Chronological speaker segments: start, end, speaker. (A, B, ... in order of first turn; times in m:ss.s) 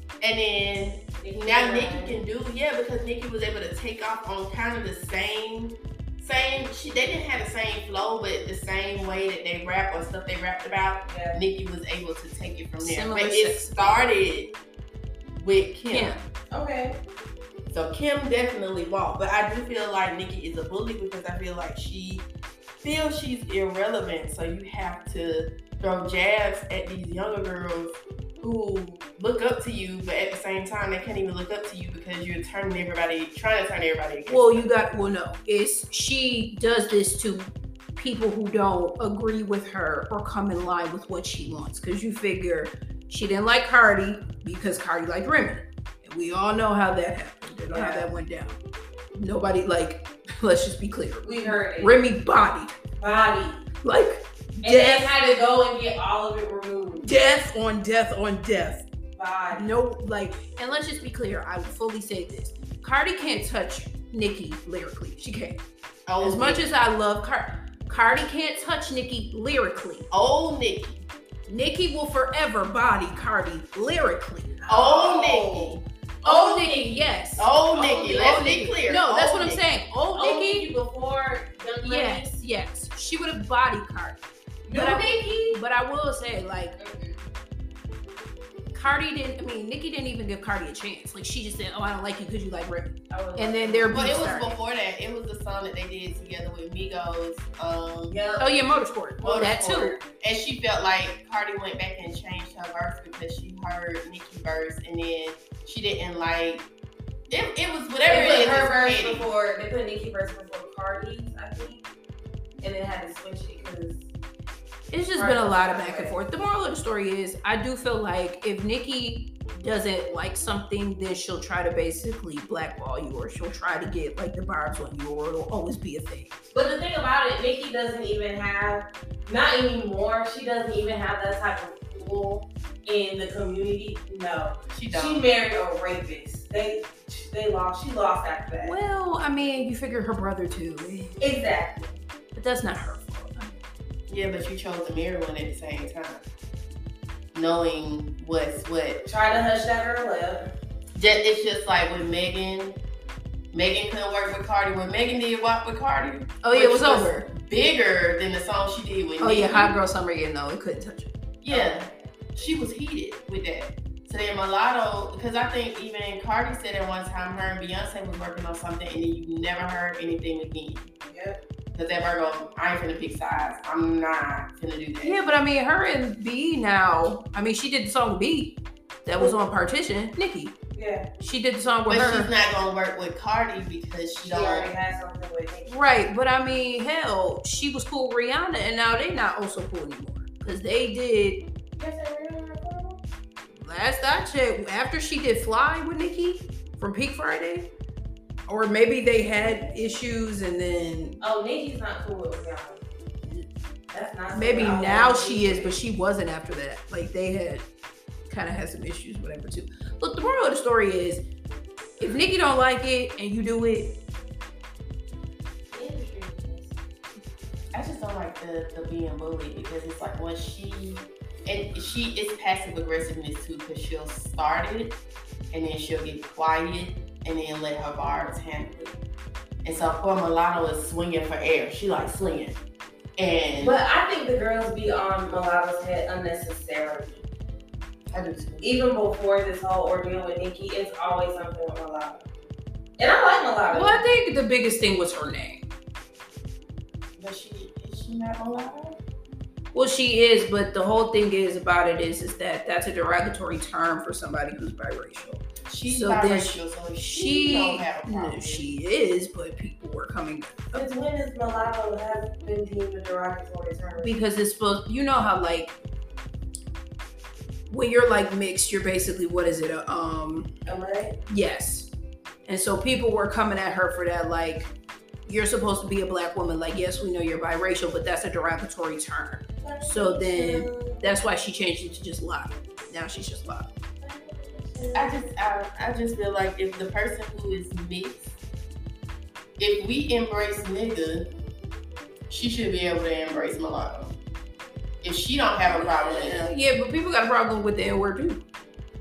0:00.2-0:14.6 A
0:01.2-0:02.2 B
0:11.1-0:11.4 B
0:12.8-0:14.0 C
0:15.4-0:16.2 A
0:15.9-0:16.2 C
0:16.5-0:17.0 B
0:17.7-0:22.3 A
0:22.8-0:34.7 A
0:34.3-0:48.6 C
0:47.7-0:48.1 B
0:49.1-0:52.7 C
0:51.2-0:52.0 B
0:53.0-0:53.6 B
0:53.8-0:55.1 C
0:54.6-0:57.1 B
0:57.0-0:58.8 C
0:59.2-0:59.6 B
0:59.5-1:05.6 C
1:06.1-1:06.7 A
1:06.2-1:10.1 C
1:10.1-1:11.0 A
1:11.5-1:14.6 C
1:14.6-1:18.5 B
1:14.7-1:15.8 A
1:16.2-1:17.5 C
1:17.4-1:19.7 A
1:18.1-1:20.7 C
1:20.1-1:22.3 B
1:21.8-1:24.2 C
1:24.7-1:25.6 B
1:24.7-1:26.8 C
1:26.8-1:27.3 B
1:28.7-1:34.5 C
1:33.1-1:34.2 B
1:33.9-1:38.4 A
1:38.1-1:38.7 B
1:38.4-1:40.0 C
1:39.2-1:40.0 B
1:39.2-1:46.7 A
1:47.3-1:49.3 A
1:48.0-1:51.8 B
1:52.6-1:54.0 B
1:54.9-2:06.4 C
1:55.1-1:56.2 B
2:06.5-2:18.8 B
2:14.7-2:15.2 A
2:18.6-2:21.1 C
2:21.2-2:22.0 B
2:22.3-2:23.5 C
2:24.1-2:26.2 A
2:27.3-2:29.0 A
2:29.0-2:30.5 B
2:31.0-2:32.8 A
2:33.5-2:39.8 A
2:36.4-2:37.2 C
2:39.2-2:41.1 C
2:41.4-2:50.9 A
2:41.5-2:42.4 B
2:51.1-2:51.4 B
2:51.7-2:55.2 A
2:55.0-3:00.6 C
3:00.7-3:01.1 B
3:01.2-3:02.3 C
3:01.9-3:04.7 A
3:04.2-3:05.8 B
3:05.7-3:11.4 C
3:11.8-3:13.0 B
3:13.6-3:17.7 C
3:18.5-3:21.2 C
3:19.3-3:19.9 B
3:21.2-3:22.8 B
3:23.9-3:25.7 B
3:24.3-3:27.6 C
3:28.3-3:31.2 C
3:32.0-3:33.9 C
3:35.7-3:36.8 B
3:37.7-3:45.0 A
3:45.5-3:49.0 A
3:49.6-3:52.6 A
3:53.2-3:53.8 A
3:53.6-3:57.2 B
3:58.1-3:58.7 A
3:58.6-4:02.2 B
4:03.0-4:04.0 B
4:03.7-4:05.6 C
4:07.2-4:09.0 A
4:09.7-4:20.9 C
4:15.7-4:18.6 A
4:20.7-4:24.2 B
4:24.0-4:25.7 C
4:27.7-4:30.5 C
4:30.6-4:31.2 B
4:31.3-4:31.9 C
4:32.5-4:34.7 C
4:35.2-4:43.7 C
4:39.6-4:41.0 B
4:44.0-4:45.3 B
4:44.9-4:48.4 A
4:49.6-4:51.3 A
4:52.3-4:54.2 A
4:55.0-4:56.5 A
4:55.8-4:58.4 C